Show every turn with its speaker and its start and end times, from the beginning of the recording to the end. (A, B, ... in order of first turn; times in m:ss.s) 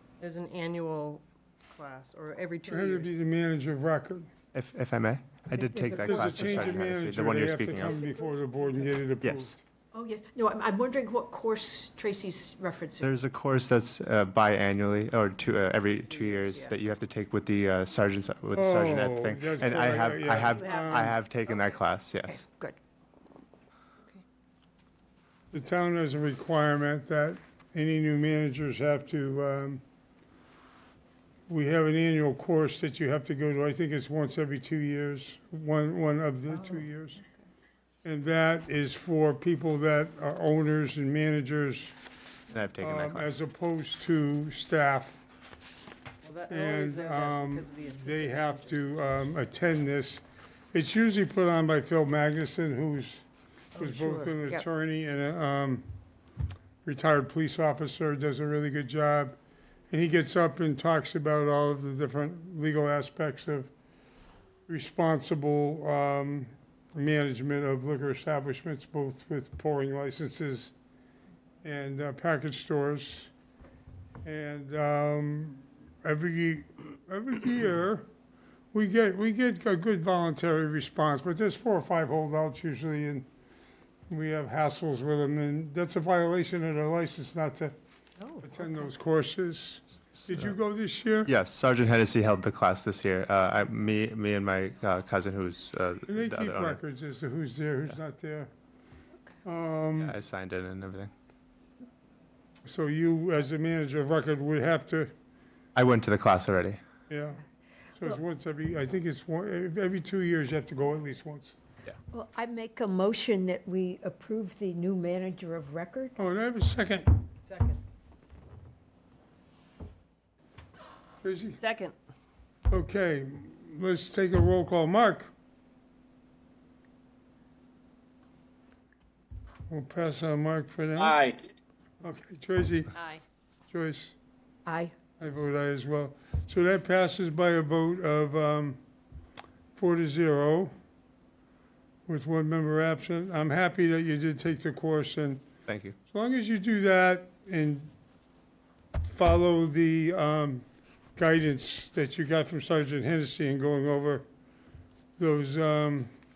0:00.2-0:03.2 A
0:02.7-0:04.3 B
0:04.5-0:08.0 C
0:05.5-0:07.0 D
0:06.0-0:09.6 B
0:07.7-0:08.2 D
0:09.2-0:09.5 C
0:09.9-0:13.1 D
0:13.0-0:22.4 C
0:18.6-0:21.1 B
0:20.7-0:21.1 D
0:22.3-0:22.8 D
0:25.5-0:29.8 B
0:31.5-0:37.2 B
0:38.0-0:42.0 B
0:42.5-0:43.4 C
0:42.8-0:45.2 B
0:46.2-0:49.1 A
0:46.5-0:50.2 B
0:50.7-0:53.2 B
0:53.8-0:54.7 D
0:53.8-0:55.8 B
0:56.8-0:59.4 B
0:59.9-1:03.7 B
1:04.7-1:10.7 B
1:11.6-1:13.3 B
1:14.2-1:18.0 B
1:18.7-1:23.3 B
1:24.1-1:27.7 B
1:28.2-1:28.5 D
1:28.4-1:31.3 B
1:30.3-1:30.6 C
1:31.2-1:36.8 C
1:36.1-1:38.5 B
1:39.4-1:40.2 B
1:40.0-1:41.1 C
1:42.6-1:45.1 B
1:45.8-1:46.8 C
1:47.1-1:47.4 B
1:48.0-1:51.6 B
1:52.1-1:56.2 D
1:56.2-1:57.1 B
1:57.5-1:57.7 A
2:01.2-2:01.6 B
2:01.6-2:02.0 A
2:02.7-2:05.3 B
2:09.7-2:11.4 B
2:12.0-2:13.0 B
2:13.7-2:14.1 B
2:14.7-2:14.9 D
2:15.2-2:18.8 B
2:19.8-2:20.7 B
2:22.1-2:25.4 B
2:25.7-2:26.0 C
2:26.1-2:27.9 B
2:29.0-2:30.6 B
2:31.2-2:34.2 B
2:35.2-2:36.1 B